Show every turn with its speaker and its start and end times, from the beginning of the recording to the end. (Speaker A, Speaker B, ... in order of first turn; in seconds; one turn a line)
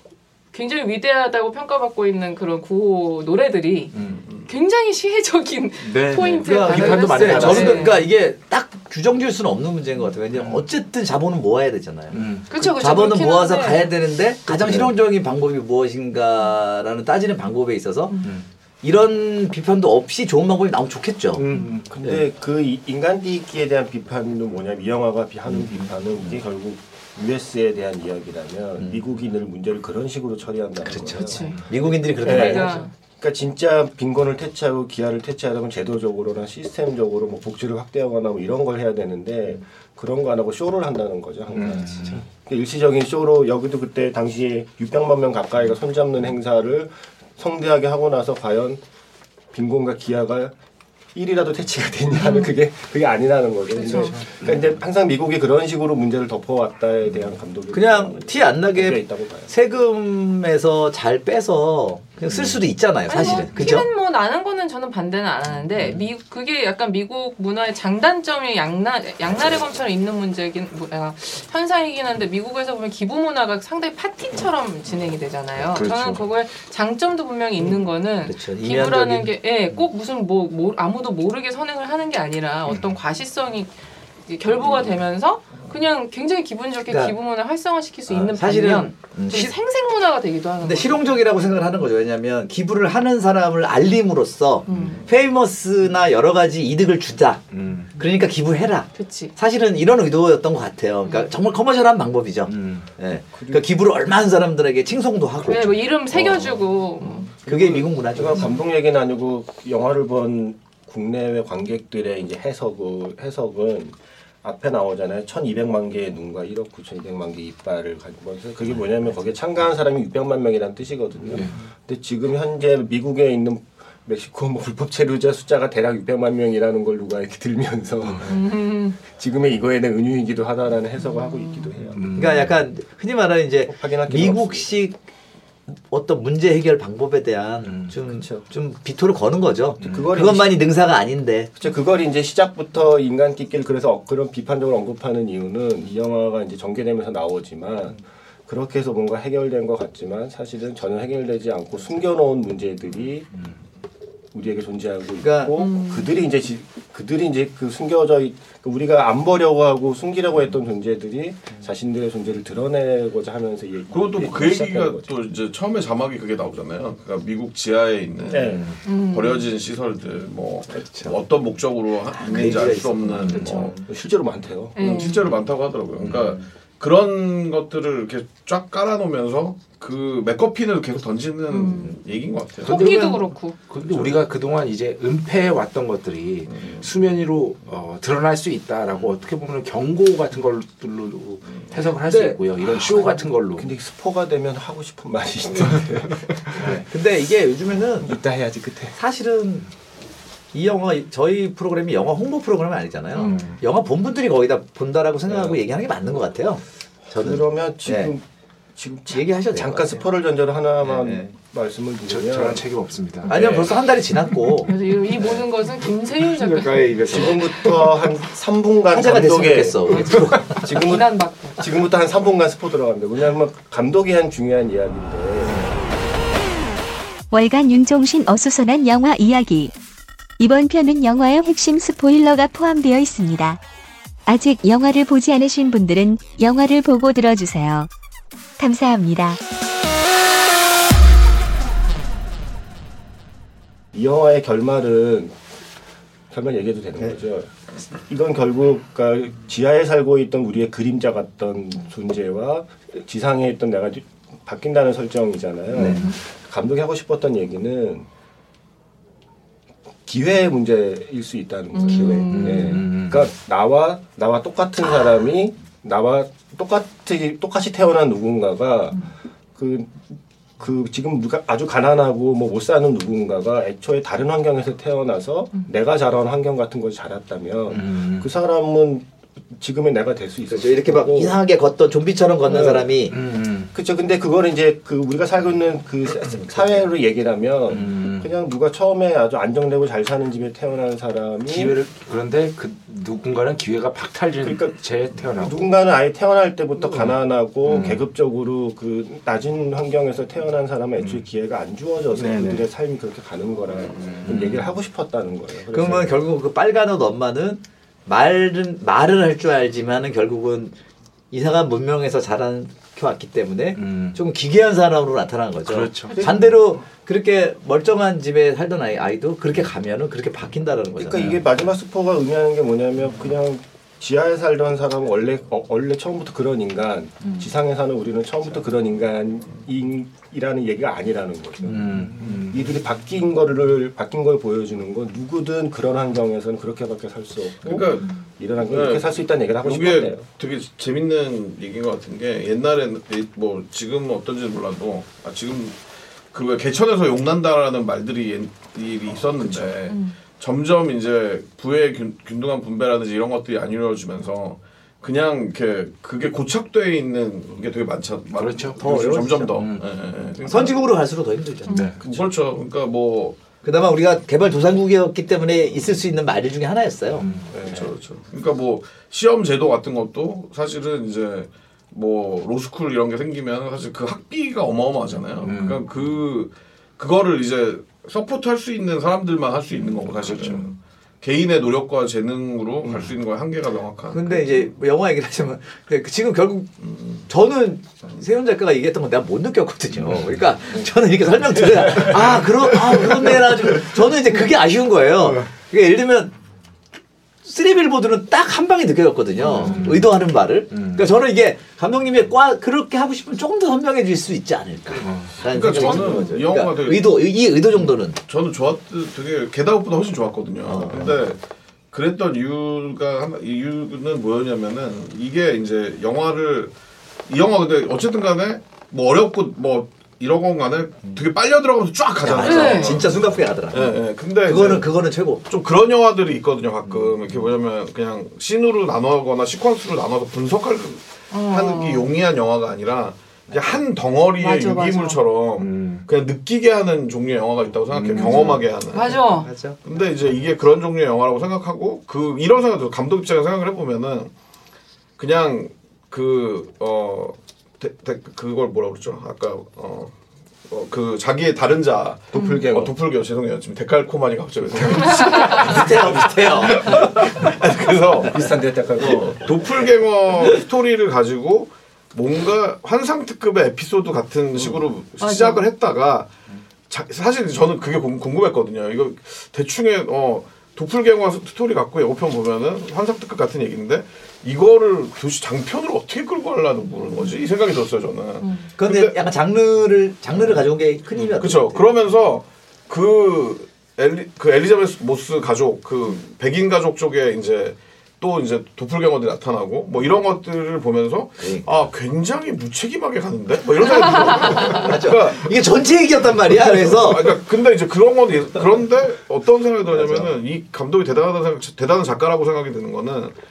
Speaker A: 0.5-3.9
Speaker B: 3.9-4.2
Speaker A: 4.5-8.1
Speaker B: 5.8-8.0
Speaker C: 6.2-18.2
Speaker B: 10.4-10.6
Speaker B: 12.1-12.6
Speaker A: 12.5-13.9
Speaker A: 18.1-18.4
Speaker C: 18.8-21.4
Speaker B: 21.3-21.9
Speaker D: 21.9-31.5
Speaker C: 25.5-26.4
Speaker C: 30.8-32.8
Speaker A: 31.1-32.9
Speaker D: 32.2-48.8
Speaker B: 41.5-42.2
Speaker D: 49.5-50.5
Speaker D: 51.1-59.5
Speaker A: 52.2-52.5
Speaker A: 53.7-54.2
Speaker C: 57.7-63.9
Speaker A: 63.1-83.7
Speaker B: 75.6-76.2
Speaker C: 78.2-79.3
Speaker A: 84.3-91.2
Speaker C: 86.9-87.2
Speaker C: 88.1-89.5
Speaker C: 90.6-97.4
Speaker A: 94.7-95.0
Speaker B: 97.5-97.9
Speaker C: 98.0-106.3
Speaker A: 99.0-99.3
Speaker B: 102.5-102.9
Speaker D: 103.4-103.6
Speaker A: 105.5-107.3
Speaker D: 106.2-106.5
Speaker C: 107.4-108.5
Speaker D: 107.5-132.0
Speaker A: 128.2-129.0
Speaker A: 131.0-131.7
Speaker B: 131.9-132.6
Speaker C: 132.1-135.0
Speaker D: 133.7-134.7
Speaker C: 135.7-141.5
Speaker B: 137.6-138.0
Speaker B: 139.8-140.1
Speaker D: 139.8-140.7
Speaker D: 141.6-153.3
Speaker D: 154.3-165.1
Speaker C: 155.2-155.5
Speaker A: 155.6-156.2
Speaker E: 163.9-173.8
Speaker D: 168.3-168.7
Speaker A: 168.8-169.5
Speaker C: 170.7-171.2
Speaker C: 172.1-173.9
Speaker A: 173.3-173.7
Speaker D: 173.9-174.8
Speaker A: 174.7-175.3
Speaker E: 174.8-182.8
Speaker C: 176.0-176.4
Speaker A: 181.5-182.0
Speaker A: 182.6-183.6
Speaker B: 182.7-193.7
Speaker C: 182.7-183.2
Speaker E: 186.5-186.9
Speaker C: 192.1-192.4
Speaker D: 193.6-196.8
Speaker B: 196.6-196.8
Speaker C: 196.8-198.2
Speaker D: 198.0-199.0
Speaker C: 198.9-199.7
Speaker C: 200.5-208.1
Speaker A: 203.2-203.5
Speaker B: 203.2-203.5
Speaker D: 205.3-205.6
Speaker D: 207.1-208.2
Speaker D: 208.8-212.6
Speaker C: 209.1-210.1
Speaker C: 210.8-211.3
Speaker B: 212.1-213.4
Speaker C: 213.3-214.7
Speaker A: 214.6-217.1
Speaker C: 216.7-217.5
Speaker D: 217.0-225.9
Speaker C: 218.9-220.7
Speaker A: 219.9-221.7
Speaker F: 227.3-229.7
Speaker F: 230.4-233.6
Speaker F: 234.3-237.9
Speaker F: 238.6-239.4
Speaker D: 243.9-245.3
Speaker D: 246.3-247.5
Speaker D: 248.1-258.1
Speaker B: 255.7-256.1
Speaker A: 255.8-256.2
Speaker D: 260.1-281.4
Speaker A: 261.7-262.9
Speaker B: 262.1-263.3
Speaker B: 277.7-278.3
Speaker C: 280.5-283.1
Speaker D: 282.5-282.9
Speaker B: 283.1-283.7
Speaker D: 283.7-291.7
Speaker B: 287.7-288.3
Speaker B: 291.5-295.7
Speaker D: 294.4-306.2
Speaker B: 297.6-298.0
Speaker B: 302.1-302.7
Speaker B: 303.9-304.7
Speaker C: 305.7-310.8
Speaker C: 311.3-321.3
Speaker B: 313.8-314.2
Speaker B: 315.7-316.2
Speaker D: 316.1-316.5
Speaker D: 321.0-340.2
Speaker B: 331.6-332.7
Speaker E: 337.6-345.8
Speaker E: 346.3-360.8
Speaker A: 349.9-350.1
Speaker B: 358.3-358.8
Speaker C: 358.8-359.5
Speaker D: 358.8-359.3
Speaker B: 359.5-359.8
Speaker C: 360.4-362.2
Speaker A: 361.6-362.0
Speaker B: 361.7-361.9
Speaker E: 362.0-363.4
Speaker C: 363.6-367.3
Speaker B: 367.2-367.5
Speaker D: 367.5-367.9
Speaker E: 367.6-384.6
Speaker B: 375.4-375.8
Speaker B: 380.1-380.7
Speaker C: 384.1-386.7
Speaker E: 386.8-387.2
Speaker C: 387.3-396.3
Speaker C: 397.4-408.2
Speaker B: 399.5-400.1
Speaker B: 400.7-401.0
Speaker B: 405.0-405.3
Speaker E: 405.4-407.2
Speaker E: 408.3-411.4
Speaker C: 410.6-411.1
Speaker E: 411.9-416.7
Speaker E: 417.3-423.2
Speaker C: 422.2-425.4
Speaker A: 422.4-423.1
Speaker E: 423.7-424.9
Speaker E: 425.4-439.2
Speaker A: 431.3-432.1
Speaker A: 434.4-435.2
Speaker B: 435.6-436.0
Speaker B: 437.9-438.5
Speaker A: 438.2-439.5
Speaker C: 438.2-438.6
Speaker C: 439.3-439.8
Speaker E: 439.7-444.3
Speaker E: 445.2-450.1
Speaker E: 450.7-466.3
Speaker D: 452.3-452.9
Speaker A: 452.3-452.7
Speaker A: 454.9-455.8
Speaker C: 455.3-457.2
Speaker D: 458.2-459.5
Speaker A: 465.2-465.6
Speaker E: 466.9-479.2
Speaker A: 478.4-478.7
Speaker C: 478.8-481.9
Speaker E: 481.4-495.5
Speaker C: 491.4-491.7
Speaker A: 494.1-494.8
Speaker C: 494.5-497.4
Speaker E: 496.6-503.3
Speaker C: 500.0-500.3